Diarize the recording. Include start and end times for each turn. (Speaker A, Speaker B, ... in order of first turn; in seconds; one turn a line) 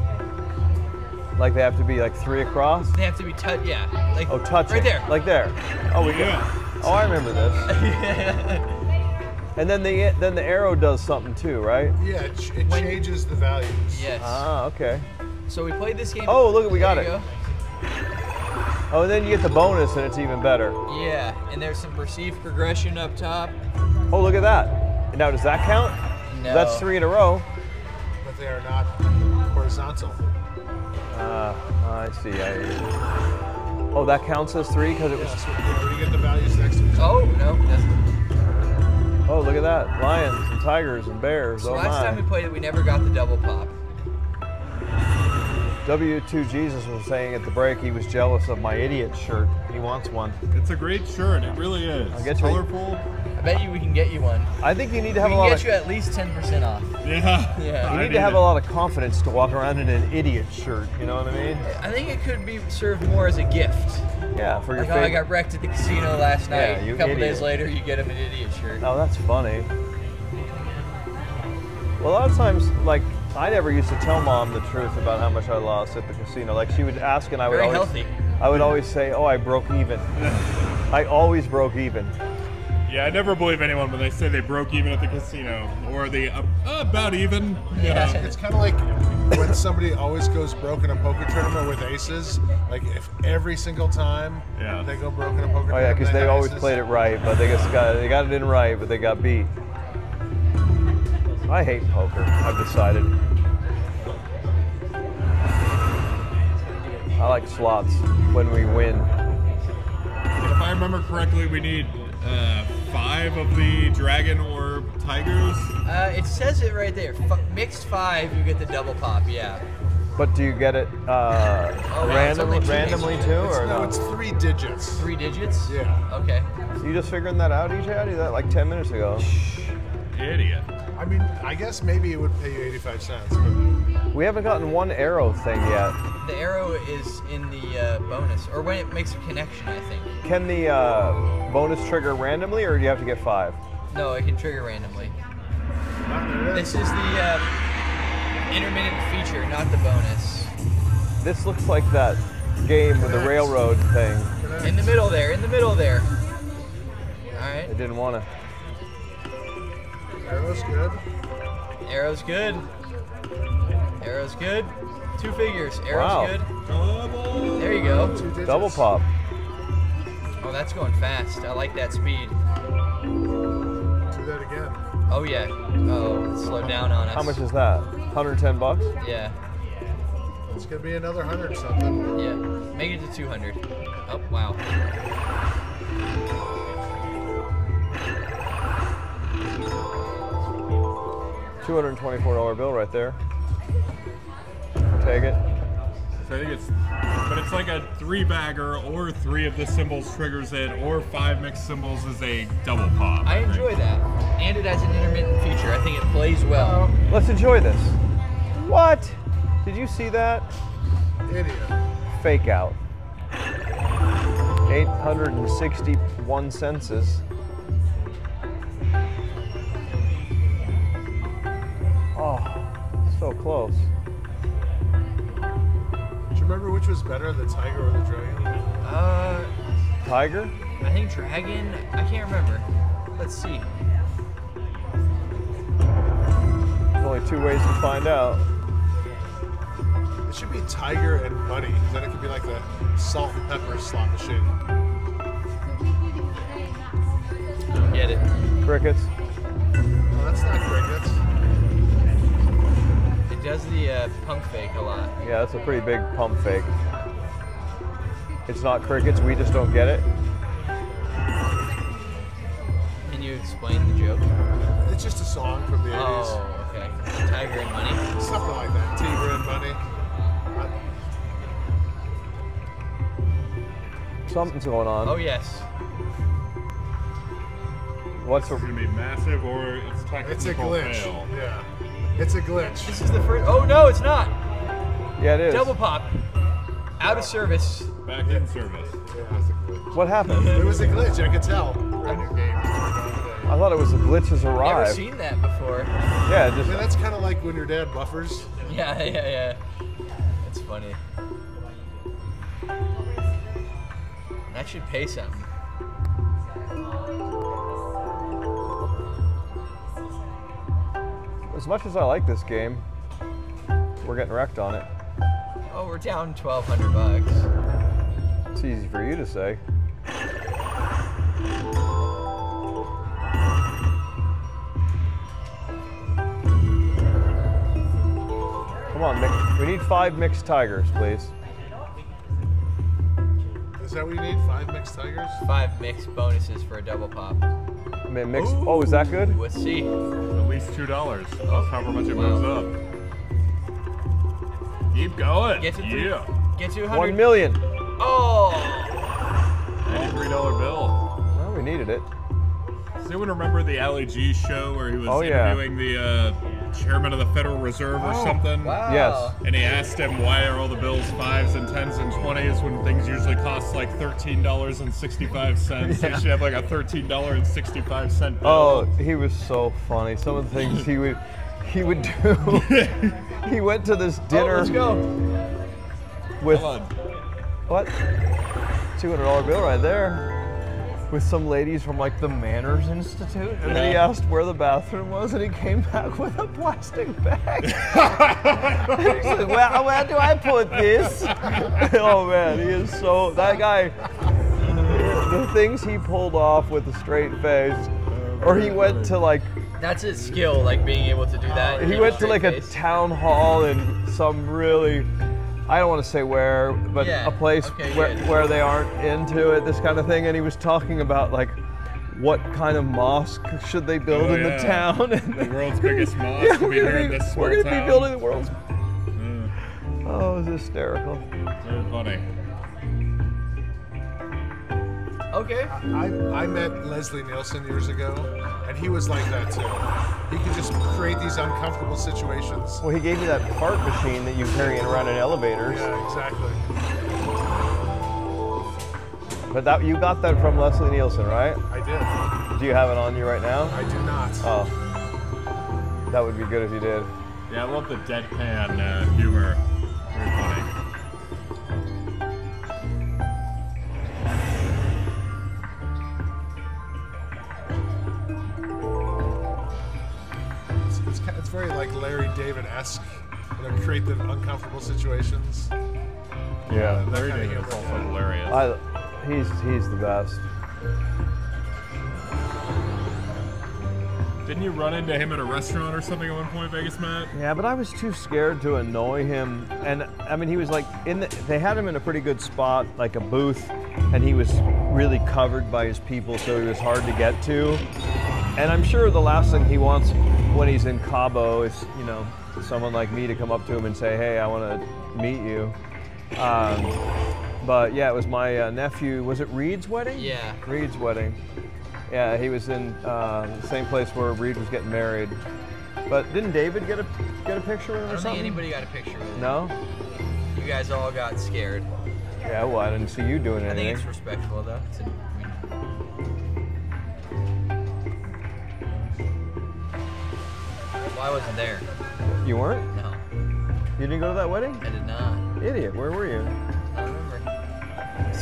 Speaker A: 1.4-2.9
Speaker B: 2.9-5.1
Speaker A: 4.3-7.6
Speaker C: 6.0-6.5
Speaker B: 7.7-8.7
Speaker A: 9.6-11.9
Speaker D: 12.0-14.1
Speaker B: 12.6-13.0
Speaker B: 13.9-14.4
Speaker A: 14.2-15.1
Speaker B: 15.5-17.3
Speaker A: 16.2-17.1
Speaker A: 18.9-20.8
Speaker B: 20.9-23.6
Speaker A: 24.1-27.4
Speaker B: 26.3-26.9
Speaker D: 28.2-28.9
Speaker D: 29.5-30.2
Speaker A: 31.1-32.8
Speaker A: 33.9-35.4
Speaker D: 35.1-37.3
Speaker B: 37.0-38.0
Speaker A: 39.3-42.2
Speaker B: 41.6-43.7
Speaker A: 45.8-50.4
Speaker C: 50.5-53.0
Speaker A: 52.1-52.6
Speaker B: 53.4-54.5
Speaker A: 54.6-55.7
Speaker B: 55.2-56.9
Speaker C: 57.0-58.5
Speaker B: 57.5-57.9
Speaker A: 57.8-61.6
Speaker B: 61.6-64.0
Speaker A: 64.3-65.2
Speaker B: 64.8-68.8
Speaker A: 66.5-67.6
Speaker A: 68.8-69.7
Speaker A: 72.0-80.1
Speaker B: 77.5-78.1
Speaker C: 78.5-78.8
Speaker C: 80.2-80.4
Speaker A: 80.9-82.1
Speaker C: 82.9-88.3
Speaker B: 87.7-88.3
Speaker D: 87.9-96.8
Speaker C: 94.6-94.9
Speaker A: 95.7-99.5
Speaker A: 101.5-103.1
Speaker A: 107.2-109.1
Speaker C: 110.4-115.7
Speaker B: 115.8-119.6
Speaker A: 120.2-124.0
Speaker B: 121.9-123.5
Speaker D: 123.2-125.1
Speaker B: 125.0-126.5
Speaker D: 125.7-126.0
Speaker A: 126.8-129.3
Speaker C: 130.1-130.7
Speaker D: 130.9-133.6
Speaker A: 134.1-135.9
Speaker B: 136.2-140.1
Speaker A: 140.2-143.6
Speaker B: 143.9-145.1
Speaker D: 146.0-146.8
Speaker B: 146.5-147.4
Speaker B: 148.5-150.5
Speaker A: 151.2-154.3
Speaker D: 153.0-153.6
Speaker D: 154.4-155.0
Speaker B: 154.6-156.1
Speaker B: 157.3-157.7
Speaker A: 157.6-158.3
Speaker D: 160.2-161.0
Speaker B: 161.8-162.6
Speaker B: 164.0-166.5
Speaker A: 165.9-166.4
Speaker C: 166.6-168.3
Speaker B: 167.6-168.2
Speaker D: 167.9-168.9
Speaker A: 168.4-169.1
Speaker B: 170.4-172.3
Speaker D: 174.1-174.8
Speaker B: 175.1-177.4
Speaker A: 176.5-178.9
Speaker B: 179.0-179.3
Speaker D: 180.5-182.0
Speaker B: 182.2-184.6
Speaker A: 191.6-193.2
Speaker A: 195.0-195.4
Speaker C: 196.2-196.7
Speaker C: 197.2-203.7
Speaker B: 203.2-206.9
Speaker D: 206.5-207.0
Speaker A: 207.1-208.0
Speaker A: 208.5-210.5
Speaker D: 211.3-211.7
Speaker A: 212.1-212.8
Speaker A: 214.7-217.2
Speaker A: 222.2-223.9
Speaker D: 226.3-228.7
Speaker B: 228.8-229.5
Speaker A: 230.0-230.5
Speaker B: 230.8-233.7
Speaker A: 237.0-238.4
Speaker D: 240.3-244.5
Speaker B: 247.9-248.2
Speaker A: 248.6-249.1
Speaker D: 250.1-251.2
Speaker B: 253.3-255.1
Speaker A: 255.2-256.7
Speaker A: 258.5-260.1
Speaker B: 263.1-264.2
Speaker D: 264.8-266.4
Speaker B: 265.9-268.0
Speaker D: 268.1-269.8
Speaker A: 274.3-275.2
Speaker B: 275.0-275.6
Speaker A: 278.2-278.6
Speaker C: 278.4-281.3
Speaker D: 280.2-283.0
Speaker B: 282.8-284.3
Speaker A: 285.2-285.7
Speaker B: 285.5-286.1
Speaker B: 287.0-287.9
Speaker D: 287.0-287.4
Speaker C: 288.0-288.9
Speaker D: 289.1-290.0
Speaker A: 289.9-290.9
Speaker B: 290.3-290.9
Speaker D: 290.5-293.6
Speaker A: 293.4-295.0
Speaker B: 294.6-295.9
Speaker A: 296.2-296.9
Speaker D: 296.6-298.5
Speaker B: 298.6-299.6
Speaker B: 300.4-301.0
Speaker B: 304.5-305.5
Speaker A: 311.5-312.8
Speaker A: 314.0-314.9
Speaker B: 315.7-317.5
Speaker A: 318.5-319.6
Speaker A: 328.9-331.3
Speaker D: 333.8-335.4
Speaker B: 335.4-337.4
Speaker A: 338.1-339.4
Speaker B: 338.3-339.9
Speaker C: 340.3-342.7
Speaker B: 341.5-342.5
Speaker C: 344.9-346.3
Speaker B: 345.6-347.3
Speaker A: 346.9-347.6
Speaker B: 348.0-348.9
Speaker C: 349.8-351.0
Speaker A: 351.3-352.1
Speaker C: 353.0-358.8
Speaker A: 355.1-355.6
Speaker D: 357.9-358.4
Speaker B: 358.6-359.4
Speaker A: 358.8-359.4
Speaker C: 359.4-368.9
Speaker A: 365.8-366.3
Speaker A: 368.4-372.9
Speaker C: 370.6-370.9
Speaker C: 372.5-373.1
Speaker A: 373.4-374.9
Speaker B: 374.3-375.0
Speaker A: 376.4-376.7
Speaker C: 376.4-376.9
Speaker A: 377.7-377.9
Speaker A: 378.9-380.2
Speaker A: 381.1-394.0
Speaker C: 383.6-384.1
Speaker C: 387.7-389.6
Speaker A: 394.6-399.5
Speaker C: 398.1-399.2
Speaker B: 399.8-402.7
Speaker D: 401.4-402.3
Speaker A: 401.8-405.1
Speaker A: 405.7-411.6
Speaker B: 406.9-408.3
Speaker A: 412.1-418.5
Speaker C: 414.1-418.1
Speaker C: 419.1-419.5
Speaker A: 420.0-421.2
Speaker C: 421.6-422.2
Speaker B: 425.3-425.7
Speaker D: 425.7-432.8
Speaker A: 432.8-435.9
Speaker D: 435.6-436.6
Speaker A: 439.5-441.6
Speaker D: 441.7-442.1
Speaker A: 442.5-443.8
Speaker D: 443.7-444.5
Speaker A: 444.4-444.7
Speaker A: 446.1-447.1
Speaker C: 447.5-449.6
Speaker C: 450.1-450.7
Speaker D: 460.9-465.7
Speaker A: 466.7-467.1
Speaker D: 466.7-468.2
Speaker C: 466.7-468.7
Speaker A: 468.5-470.4
Speaker C: 474.4-477.3
Speaker A: 477.3-487.8
Speaker A: 488.6-495.8
Speaker A: 496.3-497.0
Speaker A: 497.6-501.4
Speaker B: 500.1-500.6
Speaker A: 502.1-505.4
Speaker A: 506.1-508.6
Speaker B: 508.1-509.6
Speaker A: 509.3-509.7
Speaker B: 510.5-511.9
Speaker A: 512.4-514.0
Speaker B: 513.6-515.6
Speaker B: 521.1-521.9
Speaker A: 522.4-522.9
Speaker B: 522.9-523.2
Speaker A: 524.0-524.8
Speaker B: 524.8-525.4
Speaker A: 525.6-526.5
Speaker B: 526.9-527.4